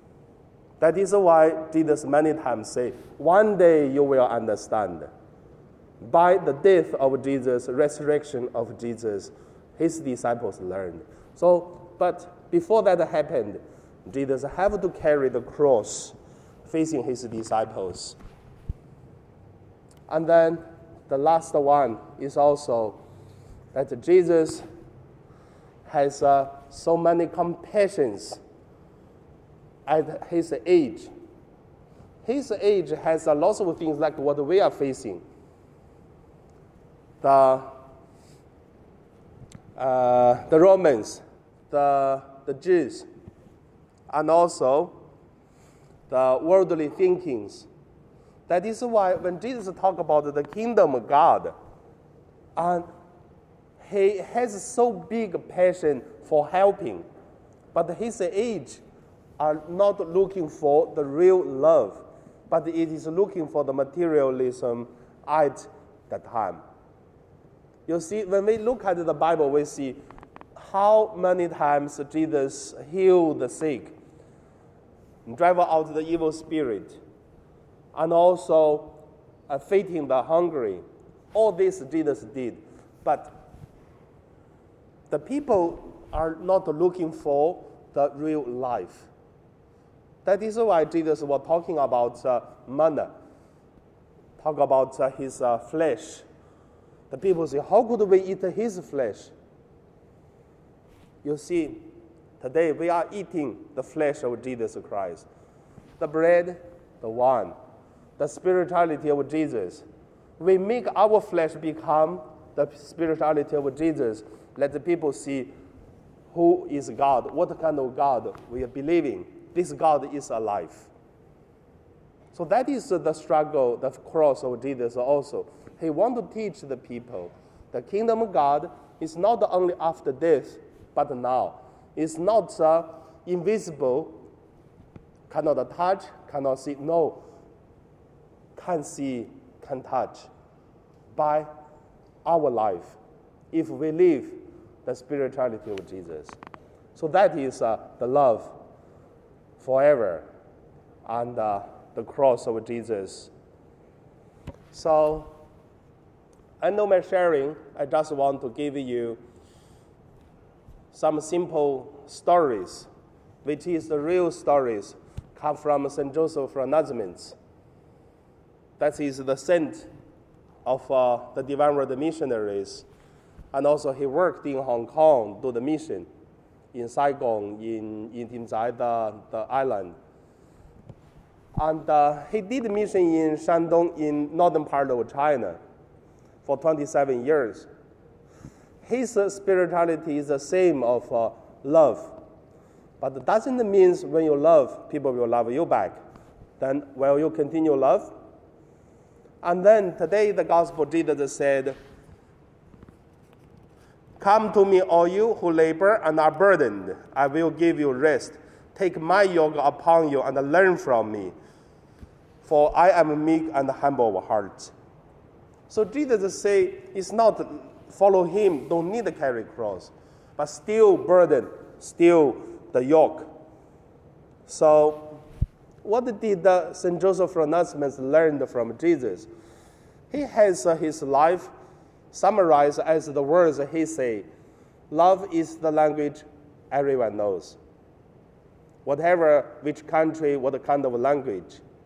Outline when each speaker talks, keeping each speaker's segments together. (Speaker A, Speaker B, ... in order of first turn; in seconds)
Speaker A: 0.8-5.1, 6.0-18.2, 20.1-23.0, 23.7-24.6, 25.9-28.4, 29.9-31.1, 32.2-35.2, 37.2-37.7, 39.8-43.1, 44.1-45.0, 46.1-47.7, 48.5-51.5, 52.6-52.9, 53.8-57.1, 57.7-58.8, 59.4-66.6, 67.9-70.0, 70.6-73.9, 75.3-77.0, 77.9-83.4, 85.1-89.1, 90.2-93.1, 94.4-96.3, 97.1-99.3, 101.2-101.9, 102.4-105.3, 106.0-107.5, 108.2-109.8, 110.4-115.5, 116.3-120.9, 122.3-134.2, 135.3-137.2, 138.6-140.3, 141.1-141.5, 142.2-143.0, 143.5-146.3, 146.9-148.5, 149.6-150.3, 151.1-153.3, 154.7-155.3, 156.6-159.2, 160.9-162.9, 163.4-167.4, 168.8-169.9, 170.7-172.9, 173.5-176.1, 176.7-179.9, 181.6-185.6, 186.4-187.7, 188.8-192.2, 193.0-196.0, 196.6-198.1, 199.4-201.8, 204.2-211.3, 212.4-214.7, 215.7-223.3, 224.5-225.2, 225.8-229.3, 230.1-231.5, 232.1-234.3, 234.9-237.6, 238.8-241.6